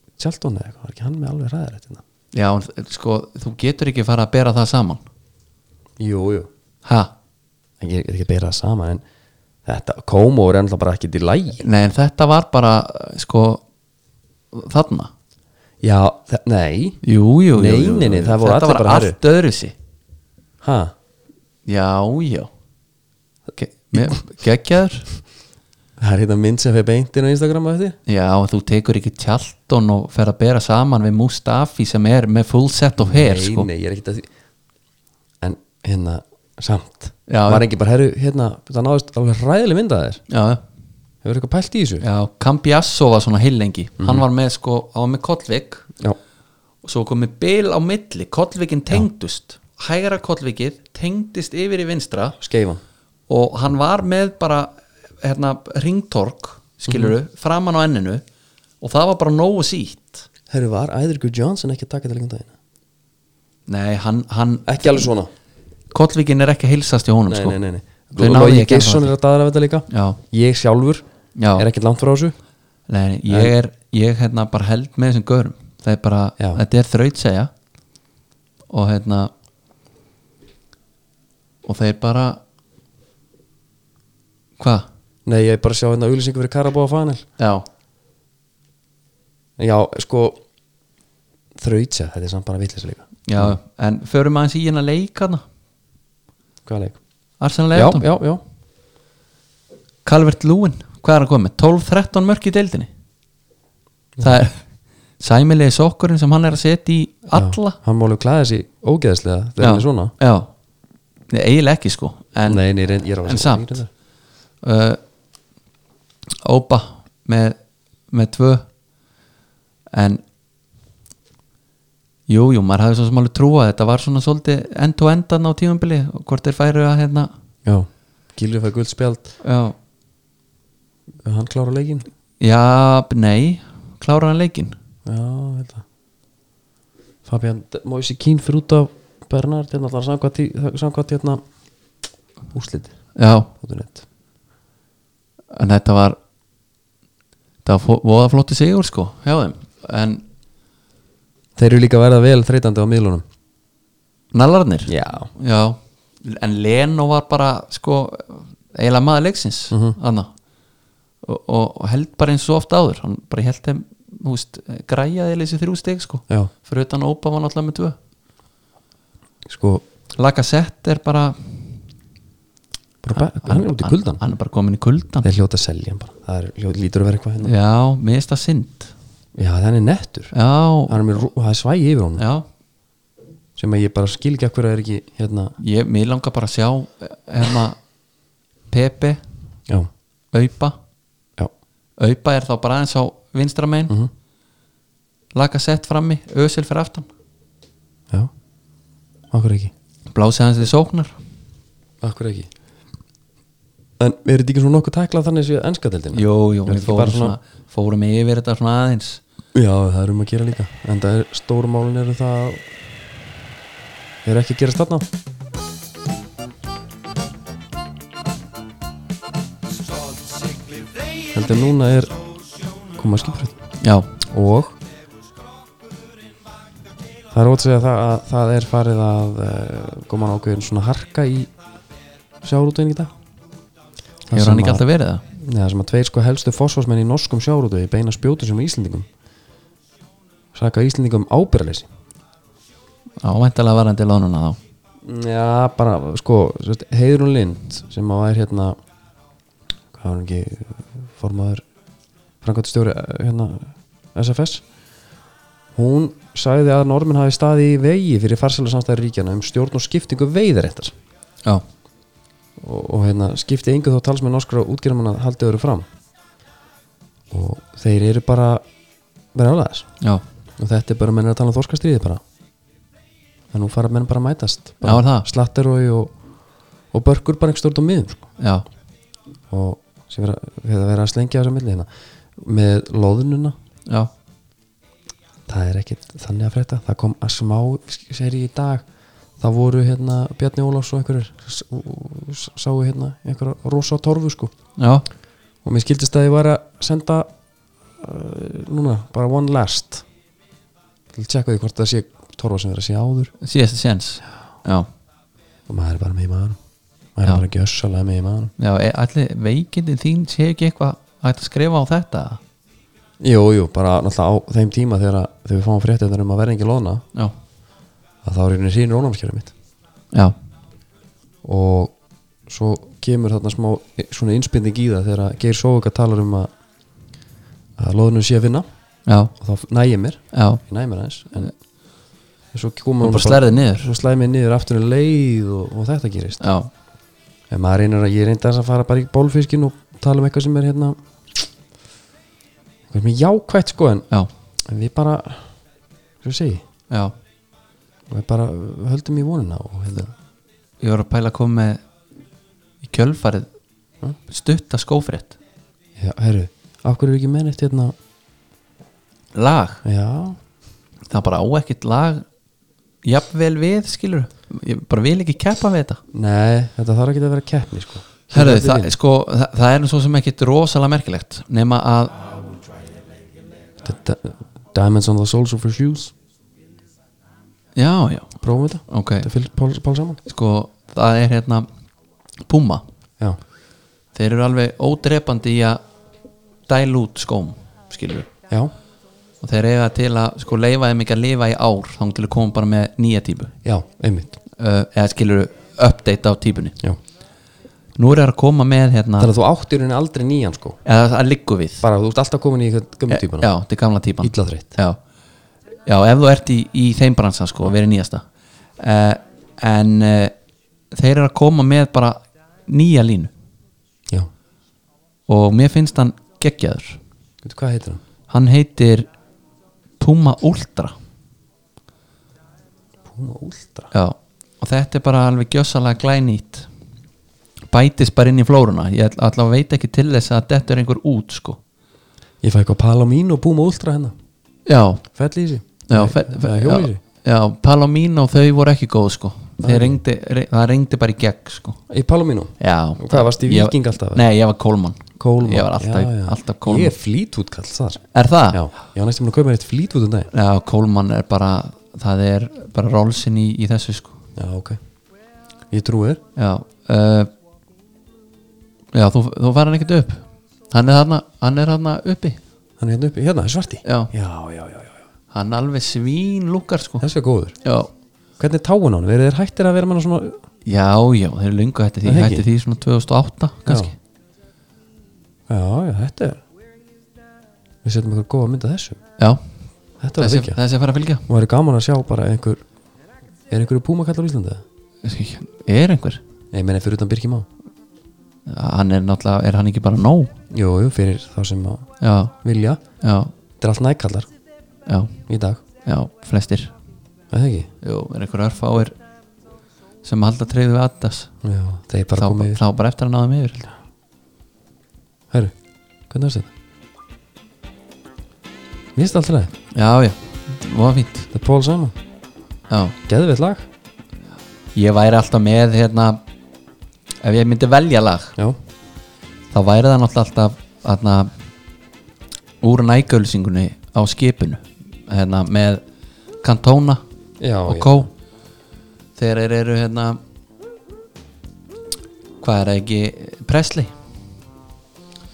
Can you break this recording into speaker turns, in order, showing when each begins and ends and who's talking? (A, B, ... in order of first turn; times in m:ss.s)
0:00.2-0:02.0 A
0:02.3-0:05.0 B
0:06.0-0:06.5 A
0:06.8-0:07.1 B
0:07.8-0:09.0 A
0:09.7-0:11.6 A
0:11.6-0:13.6 B
0:14.5-0:15.1 B
0:15.8-0:17.0 A
0:17.0-0:19.7 B
0:17.6-0:19.2 A
0:20.6-0:20.9 A
0:21.7-0:22.5 B
0:23.6-0:25.1 B
0:26.0-0:28.0 A
0:28.1-0:33.7 B
0:33.0-0:34.3 A
0:35.4-0:40.2 A
0:37.3-0:37.6 B
0:40.3-0:40.6 B
0:41.2-0:42.0 A
0:42.0-0:45.9 B
0:46.8-0:52.4 B
0:52.4-0:52.8 A
0:53.3-0:58.2 B
0:56.9-0:57.2 A
0:58.8-1:00.3 B
1:00.5-1:02.5 A
1:03.7-1:05.1 B
1:04.7-1:05.3 A
1:05.9-1:07.6 B
1:07.3-1:11.0 A
1:08.2-1:09.1 B
1:09.9-1:10.2 B
1:11.4-1:11.7 B
1:11.6-1:12.4 A
1:12.9-1:17.5 B
1:13.3-1:13.5 A
1:18.7-1:19.3 B
1:21.6-1:22.4 B
1:24.6-1:24.9 B
1:25.3-1:27.2 A
1:27.4-1:27.6 B
1:29.6-1:30.4 A
1:31.6-1:33.6 A
1:33.3-1:35.4 B
1:36.7-1:37.0 A
1:37.4-1:38.1 B
1:37.7-1:38.4 A
1:40.0-1:42.9 B
1:44.2-1:44.5 A
1:44.2-1:44.6 B
1:45.2-1:47.8 B
1:47.3-1:50.1 A
1:49.6-1:50.5 B
1:51.3-1:52.6 B
1:52.5-1:53.9 A
1:53.2-1:53.8 B
1:54.6-1:55.0 B
1:56.4-1:57.6 B
1:58.1-1:58.7 B
1:59.9-2:00.2 B
2:02.3-2:07.3 B
2:07.6-2:09.3 A
2:09.4-2:09.8 B
2:11.2-2:12.1 A
2:12.4-2:14.8 B
2:15.1-2:15.8 A
2:17.2-2:21.4 A
2:22.5-2:23.0 A
2:23.2-2:23.5 B
2:23.6-2:24.0 A
2:25.5-2:26.2 B
2:27.6-2:30.2 B
2:31.6-2:33.2 A
2:34.3-2:40.3 B
2:34.9-2:35.3 A
2:39.7-2:40.0 A
2:41.2-2:48.0 B
2:49.5-2:49.8 A
2:50.2-2:51.6 B
2:53.0-2:54.2 A
2:53.2-2:55.3 B
2:55.2-2:57.5 A
2:57.4-2:58.9 B
2:59.4-3:00.3 A
3:00.3-3:01.0 B
3:00.9-3:02.2 A
3:02.2-3:02.5 B
3:03.6-3:05.6 A
3:05.6-3:07.8 B
3:08.7-3:09.2 B
3:10.3-3:10.8 B
3:12.0-3:14.0 B
3:15.4-3:17.1 B
3:19.3-3:19.7 A
3:20.1-3:21.2 B
3:22.0-3:22.5 A
3:24.0-3:27.4 A
3:26.1-3:29.2 B
3:29.5-3:32.6 A
3:34.2-3:35.1 A
3:41.3-3:42.2 A
3:42.9-3:43.6 A
3:43.8-3:44.1 B
3:44.2-3:44.8 A
3:47.3-3:51.5 A
3:52.4-3:53.1 A
3:54.3-3:54.8 A
3:54.3-3:55.2 B
3:55.4-3:59.1 A
4:00.5-4:01.9 A
4:03.2-4:04.6 B
4:05.0-4:08.8 A
4:09.9-4:11.6 A
4:12.4-4:14.6 A
4:15.8-4:20.9 A
4:22.6-4:25.9 A
4:27.3-4:28.6 A
4:29.3-4:29.9 A
4:30.6-4:32.2 A
4:33.5-4:36.1 A
4:34.8-4:35.3 B
4:36.9-4:38.3 A
4:38.4-4:38.6 B
4:39.5-4:43.5 A
4:45.5-4:48.8 A
4:49.4-4:54.5 A
4:54.8-4:55.1 B
4:55.6-4:57.3 A
4:58.0-5:00.0 A
5:01.1-5:03.3 A
5:03.4-5:04.9 B
5:05.7-5:06.6 A
5:07.2-5:08.5 A
5:08.6-5:12.4 B
5:13.2-5:17.0 A
5:18.2-5:19.5 A
5:21.4-5:21.9 A
5:22.5-5:26.5 A
5:27.8-5:28.6 A
5:29.1-5:29.3 B
5:29.4-5:31.5 A
5:30.3-5:30.6 B
5:32.5-5:36.4 A
5:33.0-5:33.9 B
5:36.4-5:36.7 B
5:37.5-5:41.4 A
5:42.9-5:44.0 A
5:44.7-5:45.4 A
5:46.2-5:46.6 A
5:48.1-5:50.1 A
5:50.8-5:51.8 B
5:52.8-5:53.5 B
5:54.3-5:55.4 B
5:56.0-5:58.0 A
5:59.4-5:59.8 B
5:59.8-6:00.4 A
6:01.1-6:02.2 B
6:03.0-6:06.0 B
6:06.1-6:09.0 A
6:08.3-6:12.3 B
6:13.8-6:16.1 A
6:17.8-6:18.4 B
6:18.4-6:20.2 A
6:18.9-6:19.3 B
6:20.3-6:21.7 B
6:22.5-6:22.8 B
6:24.1-6:25.8 B
6:26.7-6:28.3 B
6:29.4-6:33.5 B
6:33.6-6:34.4 A
6:34.5-6:36.8 B
6:38.0-6:39.3 B
6:39.2-6:40.8 A
6:40.8-6:41.8 B
6:41.8-6:43.5 A
6:43.1-6:45.0 B
6:44.2-6:44.7 A
6:45.9-6:48.2 B
6:48.8-6:50.3 B
6:50.9-6:53.3 B
6:55.3-6:57.0 B
6:57.4-6:58.0 A
6:58.3-6:59.1 B
7:00.0-7:00.9 B
7:03.1-7:03.9 A
7:03.9-7:06.7 B
7:07.7-7:11.6 B
7:12.4-7:14.1 A
7:14.7-7:15.0 B
7:15.1-7:17.0 A
7:15.9-7:21.8 B
7:19.6-7:20.0 A
7:21.9-7:24.2 A
7:22.6-7:26.9 B
7:25.2-7:30.3 A
7:28.1-7:28.7 B
7:30.3-7:34.2 B
7:34.4-7:34.8 A
7:35.7-7:36.2 A
7:36.4-7:37.3 B
7:38.9-7:42.4 B
7:42.8-7:45.0 A
7:43.8-7:44.1 B
7:45.3-7:47.1 B
7:47.0-7:47.5 A
7:47.6-7:47.9 B
7:48.4-7:50.4 A
7:50.7-7:54.0 B
7:52.0-7:52.4 A
7:55.5-7:56.4 A
7:57.8-7:59.0 A
8:00.0-8:00.6 A
8:00.2-8:01.2 B
8:01.3-8:02.6 A
8:03.5-8:04.6 A
8:05.0-8:06.2 B
8:06.5-8:07.5 A
8:08.5-8:10.4 B
8:10.5-8:11.9 A
8:12.0-8:12.4 B
8:12.4-8:12.8 A
8:13.0-8:13.3 B
8:13.6-8:14.3 A
8:14.9-8:15.2 B
8:15.3-8:15.6 A
8:15.8-8:16.7 B
8:17.3-8:17.7 A
8:17.8-8:19.0 B
8:20.0-8:21.3 B
8:21.4-8:22.6 A
8:22.1-8:23.7 B
8:26.1-8:26.5 A
8:29.0-8:29.5 A
8:29.7-8:31.3 B
8:31.3-8:32.0 A
8:32.7-8:33.0 B
8:33.1-8:33.6 A
8:34.8-8:36.2 B
8:37.2-8:38.4 B
8:39.5-8:41.3 B
8:42.6-8:45.8 B
8:46.4-8:47.0 B
8:47.4-8:48.1 A
8:47.7-8:48.1 B
8:49.2-8:50.2 B
8:52.4-8:53.9 B